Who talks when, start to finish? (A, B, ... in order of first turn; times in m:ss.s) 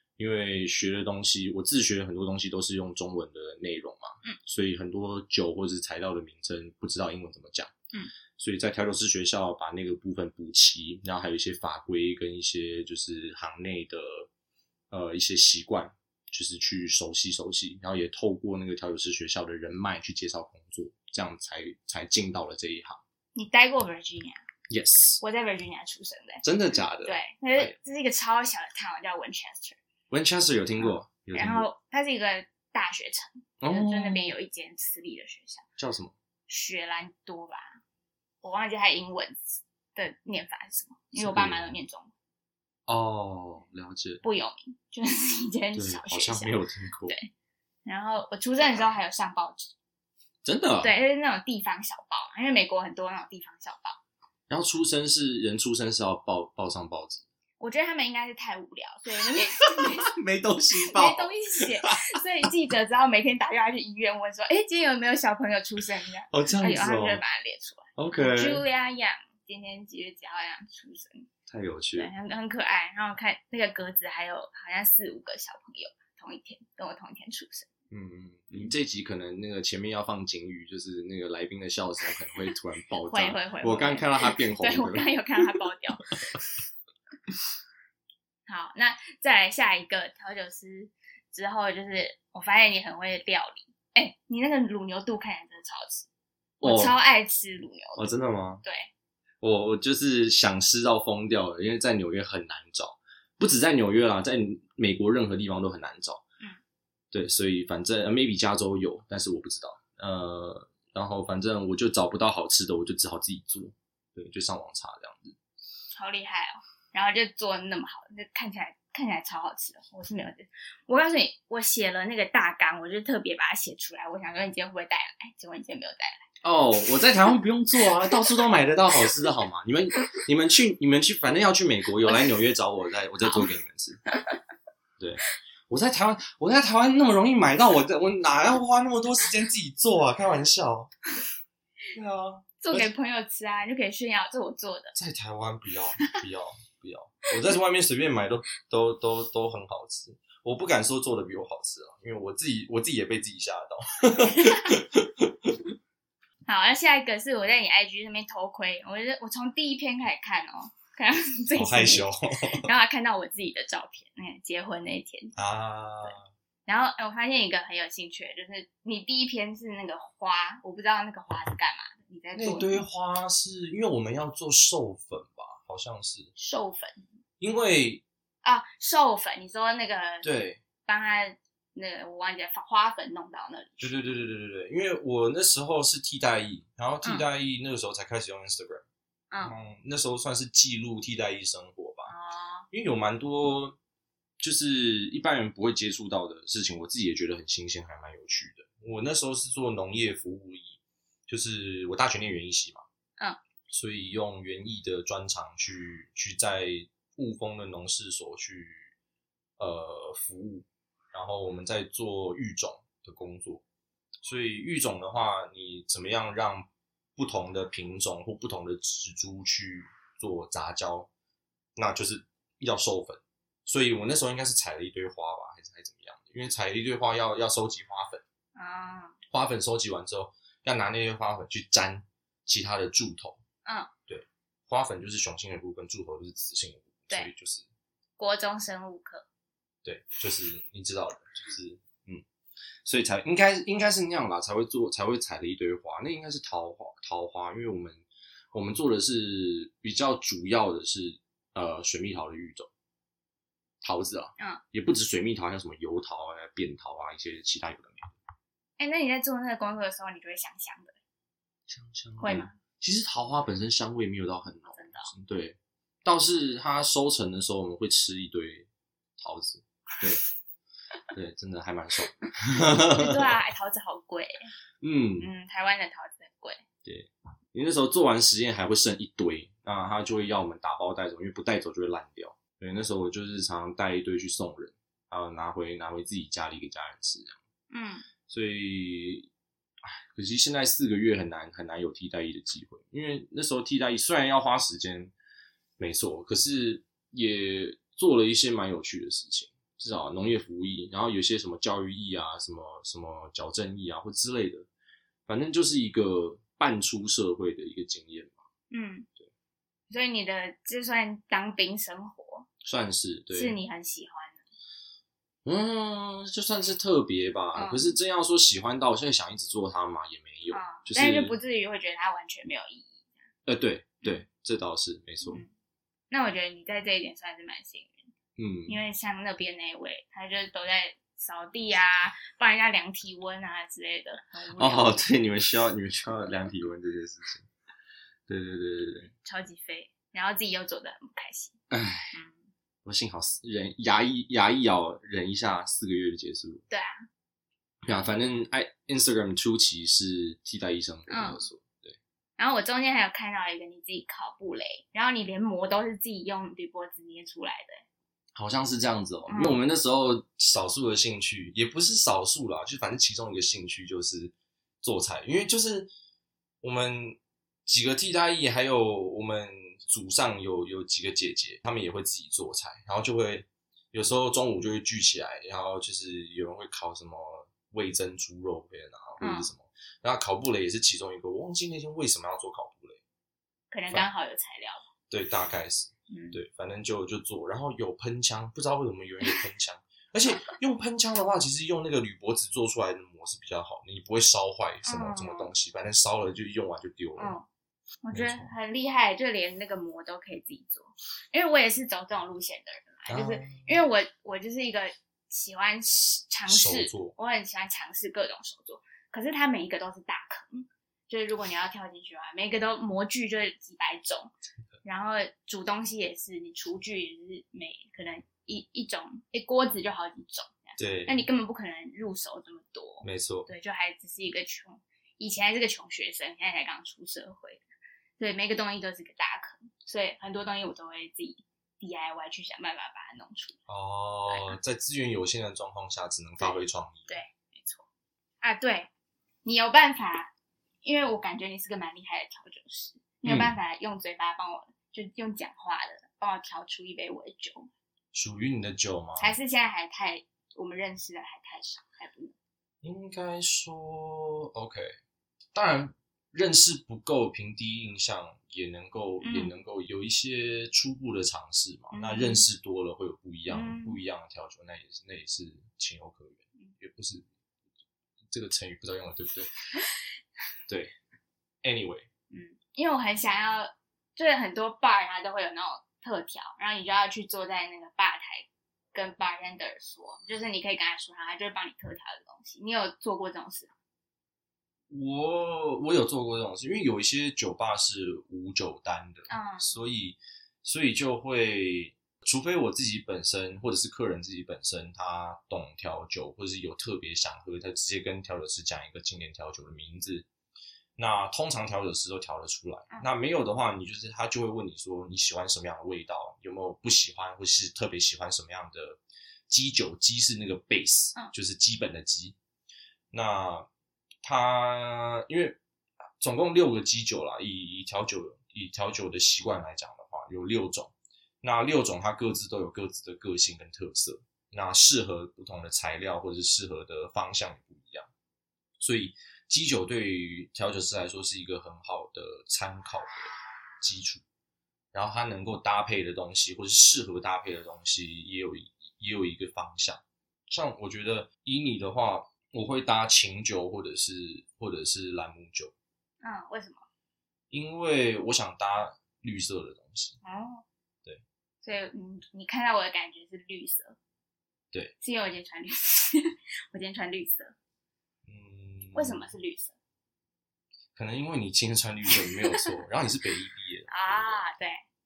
0:00.2-0:07.7 A
0:08.4-0:14.3 A
0:14.9-0:23.0 A
0:23.3-0:24.4 B
0:24.7-0:25.2 A
0:25.2-0:29.8 B
0:26.4-0:27.7 A
0:30.1-0:31.7 A
0:30.8-0:35.6 B
0:33.6-0:34.3 A
0:35.8-0:36.1 A
0:36.5-0:37.8 B
0:38.4-0:42.1 B
0:41.1-0:41.7 A
0:42.9-0:44.2 A
0:44.2-0:46.6 B
0:45.7-0:47.1 A
0:47.8-0:49.7 B
0:50.4-0:50.9 A
0:50.8-0:54.0 B
0:54.5-0:57.2 A
0:57.6-1:00.1 B
0:59.7-1:01.9 A
1:00.8-1:11.3 B
1:06.3-1:07.2 A
1:08.0-1:08.6 A
1:11.5-1:12.1 A
1:12.0-1:17.7 B
1:17.9-1:25.1 A
1:23.0-1:26.2 B
1:28.5-1:36.1 B
1:36.6-1:36.9 A
1:36.6-1:38.9 B
1:38.0-1:38.6 A
1:39.4-1:46.2 A
1:47.1-1:55.4 A
1:55.9-2:06.2 B
2:06.4-2:14.0 A
2:15.0-2:20.9 A
2:21.9-2:22.9 A
2:22.6-2:24.9 B
2:24.9-2:35.6 A
2:34.3-2:34.7 B
2:36.5-2:42.0 B
2:41.5-2:42.7 A
2:42.6-2:45.3 B
2:45.4-2:46.3 A
2:46.7-2:52.8 B
2:52.4-2:56.3 A
2:56.4-2:57.0 B
2:57.4-2:58.0 A
2:58.4-3:00.3 B
3:00.2-3:00.6 A
3:00.8-3:03.9 B
3:03.8-3:08.8 A
3:09.4-3:12.1 A
3:12.1-3:12.6 B
3:12.7-3:13.8 A
3:14.4-3:22.8 A
3:23.7-3:28.9 A
3:29.6-3:33.6 A
3:34.2-3:41.1 A
3:41.8-3:48.2 A
3:48.6-3:49.2 B
3:49.3-3:53.4 A
3:53.6-3:53.9 B
3:54.1-3:57.6 A
3:58.2-3:59.2 B
3:59.8-4:02.2 A
4:02.8-4:12.7 A
4:13.8-4:18.1 A
4:18.8-4:21.0 B
4:21.7-4:28.7 A
4:22.2-4:22.6 B
4:24.7-4:25.1 B
4:29.2-4:30.2 A
4:31.1-4:33.3 A
4:32.8-4:34.5 B
4:34.8-4:35.3 A
4:35.2-4:36.6 B
4:36.8-4:47.4 A
4:47.7-4:48.0 B
4:48.3-4:49.3 A
4:49.8-4:55.1 A
4:55.8-5:04.7 A
5:05.3-5:08.4 A
5:08.7-5:09.1 B
5:09.9-5:12.5 B
5:12.6-5:13.6 A
5:13.3-5:14.4 B
5:15.4-5:21.4 A
5:17.5-5:17.9 B
5:20.5-5:23.2 B
5:23.4-5:25.4 A
5:25.2-5:25.5 B
5:26.1-5:28.1 B
5:28.4-5:28.8 A
5:28.7-5:35.0 B
5:34.6-5:37.5 A
5:38.3-5:39.1 A
5:39.2-5:41.6 B
5:41.7-5:42.2 A
5:42.1-5:42.5 B
5:42.8-5:46.6 A
5:46.7-5:47.0 B
5:47.8-5:52.0 A
5:51.1-5:51.5 B
5:52.4-5:57.8 B
5:58.3-6:05.9 A
5:59.3-5:59.6 B
6:06.6-6:23.0 A
6:19.2-6:19.5 B
6:23.7-6:24.8 B
6:25.1-6:37.4 A
6:26.1-6:26.4 B
6:34.8-6:35.5 B
6:37.2-6:37.4 B
6:38.0-6:54.3 B
6:38.1-6:38.5 A
6:43.1-6:43.8 A
6:46.5-6:47.1 A
6:54.8-7:07.6 B
7:00.8-7:01.3 A
7:03.0-7:03.5 A
7:08.2-7:13.6 B
7:13.7-7:17.2 A
7:14.3-7:14.6 B
7:16.4-7:17.8 B
7:18.4-7:18.9 B
7:19.4-7:20.3 B
7:20.8-7:27.7 B
7:23.2-7:23.6 A
7:28.1-7:29.3 A
7:29.2-7:32.3 B
7:32.8-7:34.9 A
7:35.5-7:47.3 A
7:39.2-7:39.5 B
7:41.9-7:42.4 B
7:43.5-7:44.0 B
7:48.3-7:49.5 A
7:50.7-7:50.9 A
7:51.6-7:52.1 A
7:52.3-8:03.7 B
8:04.9-8:20.2 A
8:09.3-8:09.7 B
8:21.0-8:32.4 A
8:33.1-8:33.7 A
8:34.2-8:35.6 A
8:36.2-8:48.1 A
8:48.8-8:54.2 A
8:54.9-9:05.7 A
9:06.2-9:06.8 B
9:07.5-9:10.2 A
9:10.2-9:10.6 B
9:11.6-9:14.0 B
9:15.0-9:17.5 B
9:18.2-9:19.3 A
9:18.9-9:19.8 B
9:21.0-9:24.4 A
9:22.2-9:22.7 B
9:23.9-9:24.8 B